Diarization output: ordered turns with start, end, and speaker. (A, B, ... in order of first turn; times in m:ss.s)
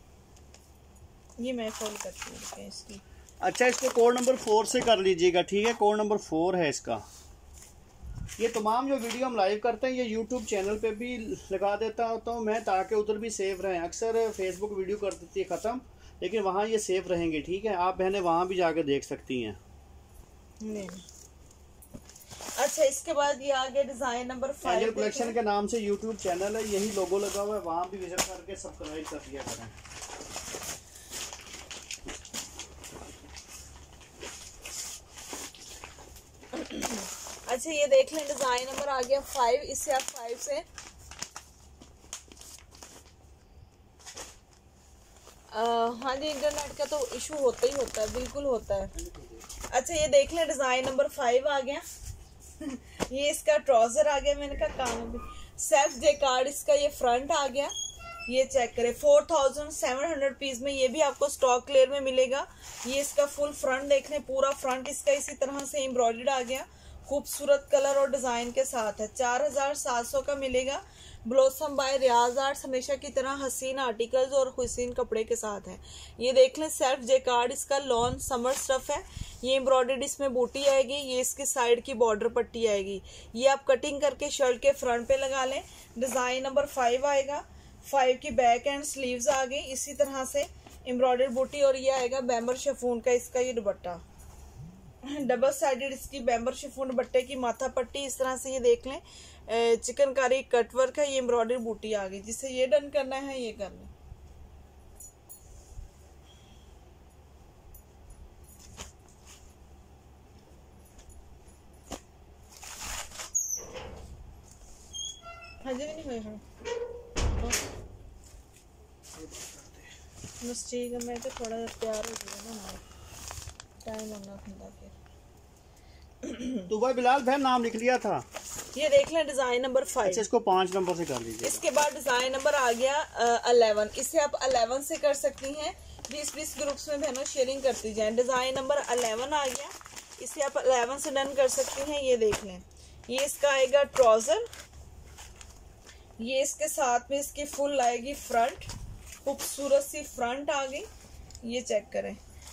0:01.4-0:03.0 A
0:03.4-0:07.0 B
0:08.4-0:19.6 B
0:20.6-0:21.0 A
0:22.6-0:25.4 A
0:24.6-0:29.8 B
0:36.5-0:40.6 A
0:45.5-0:48.9 A
0:49.0-0:49.5 B
0:49.7-0:51.8 A
0:52.6-0:57.7 A
0:58.3-1:34.0 A
1:35.0-1:43.9 A
1:55.6-1:56.5 A
1:59.2-1:59.9 B
2:00.4-2:02.8 A
2:03.8-2:05.0 A
2:06.2-2:06.7 A
2:06.7-2:08.2 B
2:08.7-2:10.3 A
2:10.0-2:11.6 B
2:11.4-2:24.5 A
2:26.2-2:28.7 A
2:29.2-2:30.9 A
2:31.4-2:32.2 A